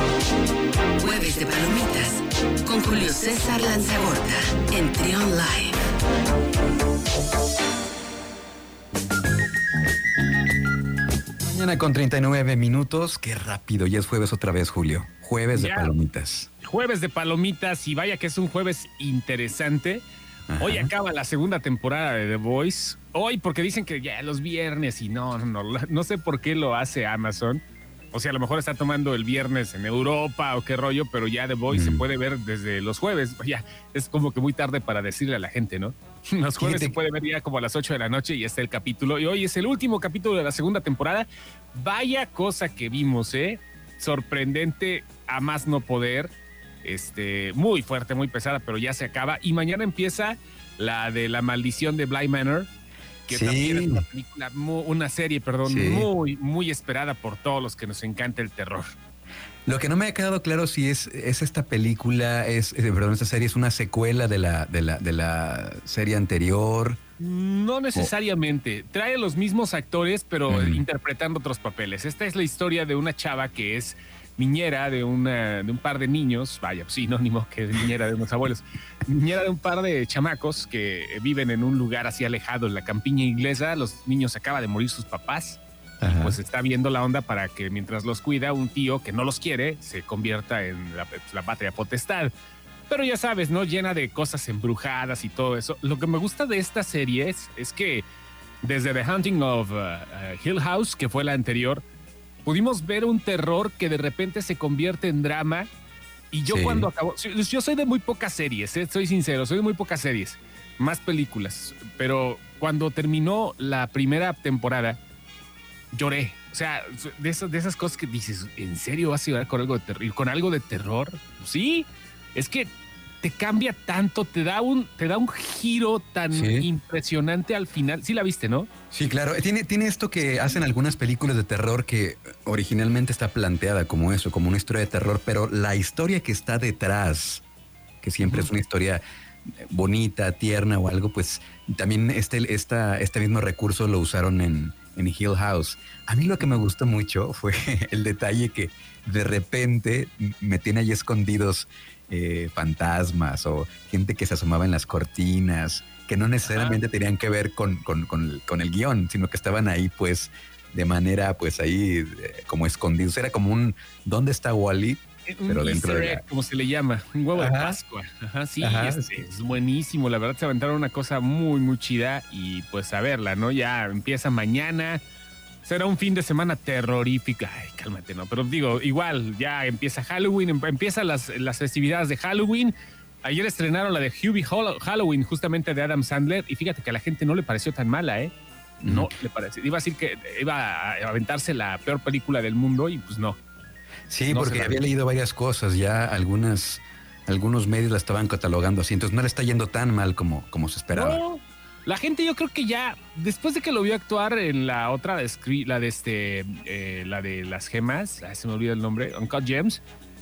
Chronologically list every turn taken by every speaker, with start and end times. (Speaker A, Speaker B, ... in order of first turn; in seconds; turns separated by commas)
Speaker A: 1.0-5.8, Speaker B: 11.4-16.5, Speaker C: 15.5-15.9, Speaker C: 16.6-20.1, Speaker B: 20.5-20.9, Speaker C: 20.6-46.3, Speaker B: 31.7-32.0, Speaker B: 36.6-37.0, Speaker C: 46.8-52.7, Speaker C: 53.3-59.0, Speaker B: 53.3-54.0, Speaker B: 55.6-56.1, Speaker B: 59.7-67.0, Speaker C: 67.2-92.3, Speaker B: 70.5-70.8, Speaker B: 86.0-86.4, Speaker C: 92.9-98.1, Speaker C: 98.6-101.8, Speaker C: 102.4-105.7, Speaker C: 106.3-115.0, Speaker B: 106.5-106.9, Speaker C: 115.9-122.7, Speaker C: 123.2-128.7, Speaker B: 126.3-126.7, Speaker B: 128.9-137.4, Speaker B: 138.0-166.2, Speaker C: 138.2-138.5, Speaker C: 156.4-156.8, Speaker C: 165.3-175.0, Speaker B: 167.4-167.8, Speaker B: 168.6-169.2, Speaker C: 175.6-188.3, Speaker B: 188.8-189.1, Speaker C: 188.8-193.4, Speaker B: 194.1-201.2, Speaker C: 194.3-194.8, Speaker C: 200.9-209.8